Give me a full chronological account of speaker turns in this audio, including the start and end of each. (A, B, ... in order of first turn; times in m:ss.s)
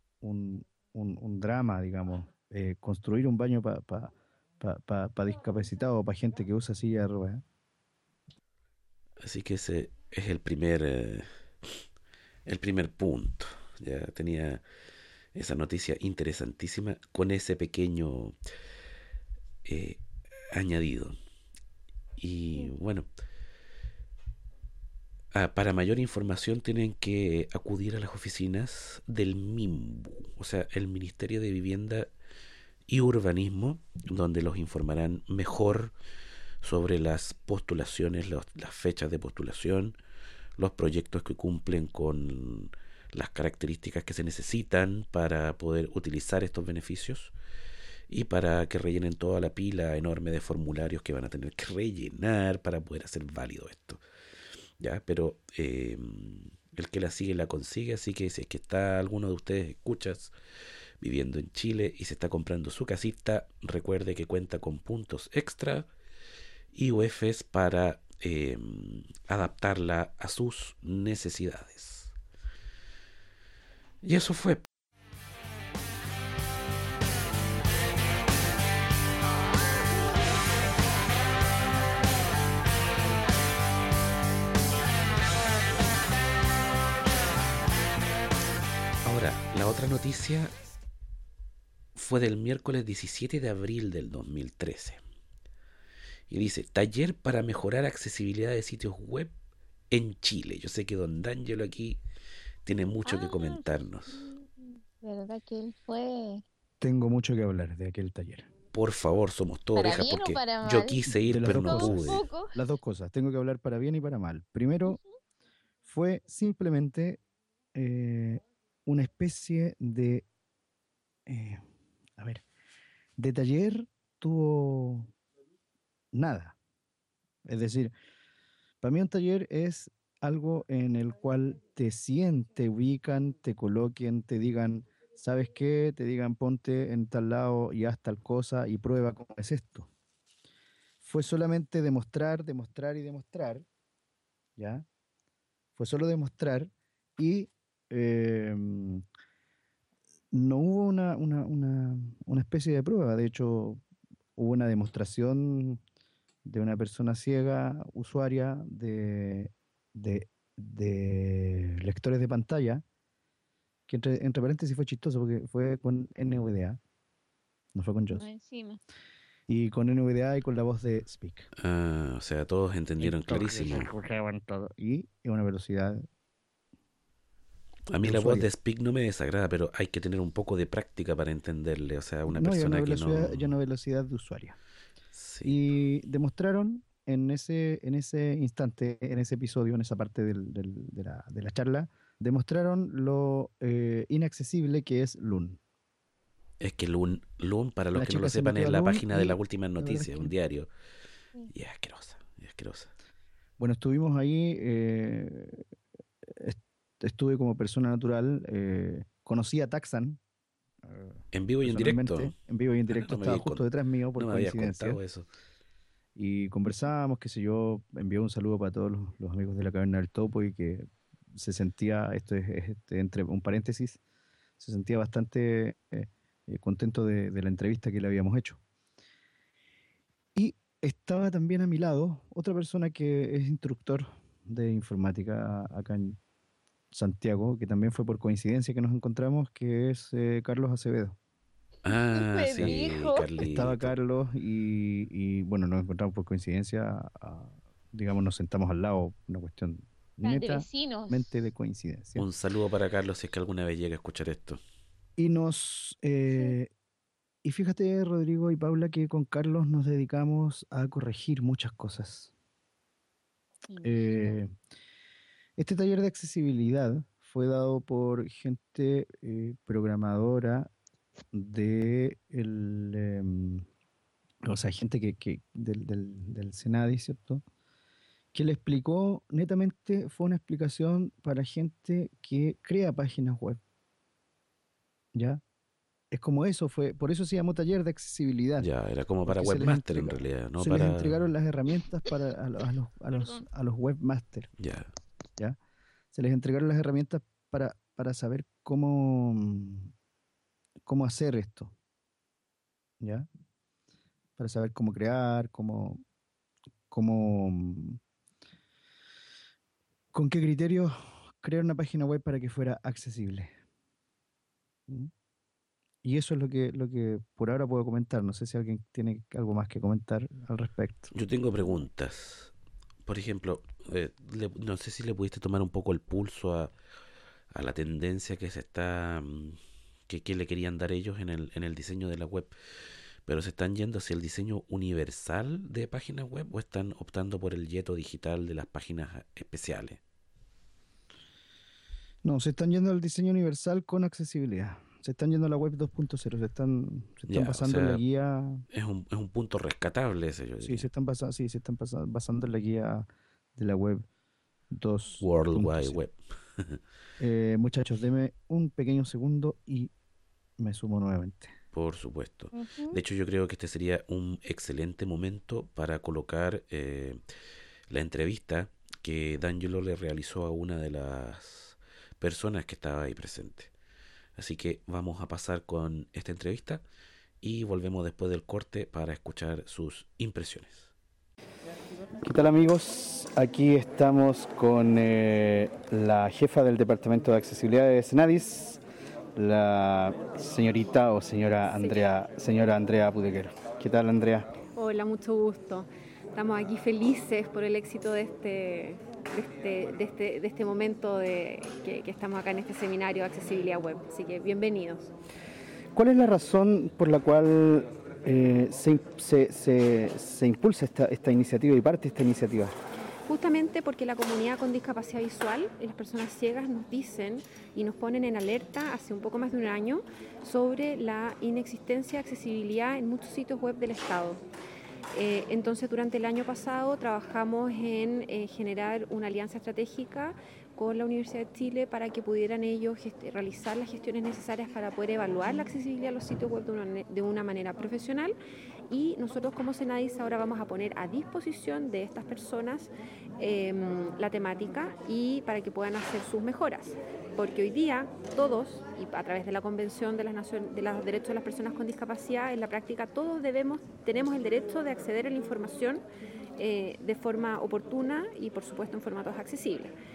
0:00.2-0:07.4 A
0:09.2-0:11.8 B
0:12.4-0:14.6 B
0:15.3-0:18.3 B
0:19.6-0:20.0 B
0:20.5-0:21.2 B
0:22.2-0:23.1 B
0:25.3-0:32.1 B
0:32.9-0:35.9 B
0:36.6-0:40.0 B
0:40.6-0:47.3 B
0:48.1-0:54.0 B
0:54.8-1:00.3 B
1:01.0-1:05.9 B
1:06.7-1:12.1 B
1:14.0-1:14.6 B
1:29.0-1:30.5 B
1:32.0-1:35.0 B
1:36.3-1:39.3 B
1:39.9-1:42.0 B
1:42.6-1:44.2 B
1:43.0-1:46.4 C
1:46.8-1:48.5 A
1:48.7-1:52.2 B
1:49.8-1:52.6 C
1:51.1-1:55.0 A
1:55.8-1:57.2 A
1:57.7-2:00.2 A
2:01.2-2:01.6 A
2:02.2-2:02.4 A
2:03.2-2:05.1 A
2:06.1-2:06.6 A
2:07.4-2:07.9 A
2:08.8-2:19.9 A
2:21.0-2:23.6 A
2:24.6-2:24.8 A
2:25.8-2:29.0 A
2:30.3-2:33.8 A
2:34.4-2:35.8 A
2:36.4-2:42.8 A
2:43.9-2:46.8 A
2:47.7-2:48.2 A
2:48.1-2:48.8 C
2:49.5-2:51.5 A
2:51.6-2:53.9 B
2:53.0-2:56.0 A
2:57.9-3:03.5 B
2:58.0-2:58.5 A
3:02.2-3:04.6 A
3:05.1-3:05.6 B
3:05.4-3:15.6 A
3:16.6-3:20.7 B
3:17.9-3:20.3 A
3:21.5-3:22.9 B
3:23.6-3:25.6 A
3:26.2-3:30.2 A
3:30.8-3:35.0 A
3:31.3-3:32.3 B
3:32.9-3:35.3 B
3:36.2-3:44.0 A
3:44.6-3:48.6 A
3:50.3-3:56.2 A
3:56.9-4:01.2 A
4:01.8-4:03.9 B
4:01.9-4:03.2 C
4:03.4-4:12.2 A
4:10.2-4:11.3 C
4:12.2-4:14.6 B
4:15.2-4:16.7 A
4:17.4-4:22.3 A
4:23.7-4:24.4 C
4:23.8-4:24.5 A
4:25.6-4:30.7 A
4:31.3-4:33.6 A
4:34.4-4:37.4 A
4:38.3-4:43.6 A
4:45.1-4:45.4 A
4:46.1-4:48.7 A
4:48.6-4:51.2 B
4:49.2-4:54.5 A
4:53.2-4:53.4 C
4:54.6-4:54.9 B
4:56.1-4:59.9 A
5:00.8-5:01.7 A
5:03.0-5:03.3 A
5:04.4-5:06.0 A
5:06.9-5:08.0 A
5:10.1-5:13.5 A
5:16.0-5:21.1 A
5:21.1-5:22.5 B
5:23.0-5:26.7 B
5:27.5-5:32.5 B
5:33.2-5:40.0 B
5:42.2-5:48.6 A
5:47.3-5:48.0 B
5:48.7-5:50.9 B
5:50.6-5:54.0 A
5:54.7-5:56.0 A
5:55.2-5:56.8 B
5:57.2-5:59.9 A
6:00.6-6:01.5 A
6:01.7-6:07.2 B
6:02.5-6:03.0 C
6:07.9-6:13.7 B
6:14.4-6:16.8 B
6:17.4-6:20.9 B
6:22.2-6:28.8 A
6:29.4-6:34.5 A
6:34.8-6:44.9 D
6:45.9-6:52.7 A
6:53.3-7:04.4 D
7:05.2-7:18.3 D
7:18.9-7:22.8 D
7:23.4-7:36.0 D
7:36.6-7:39.9 D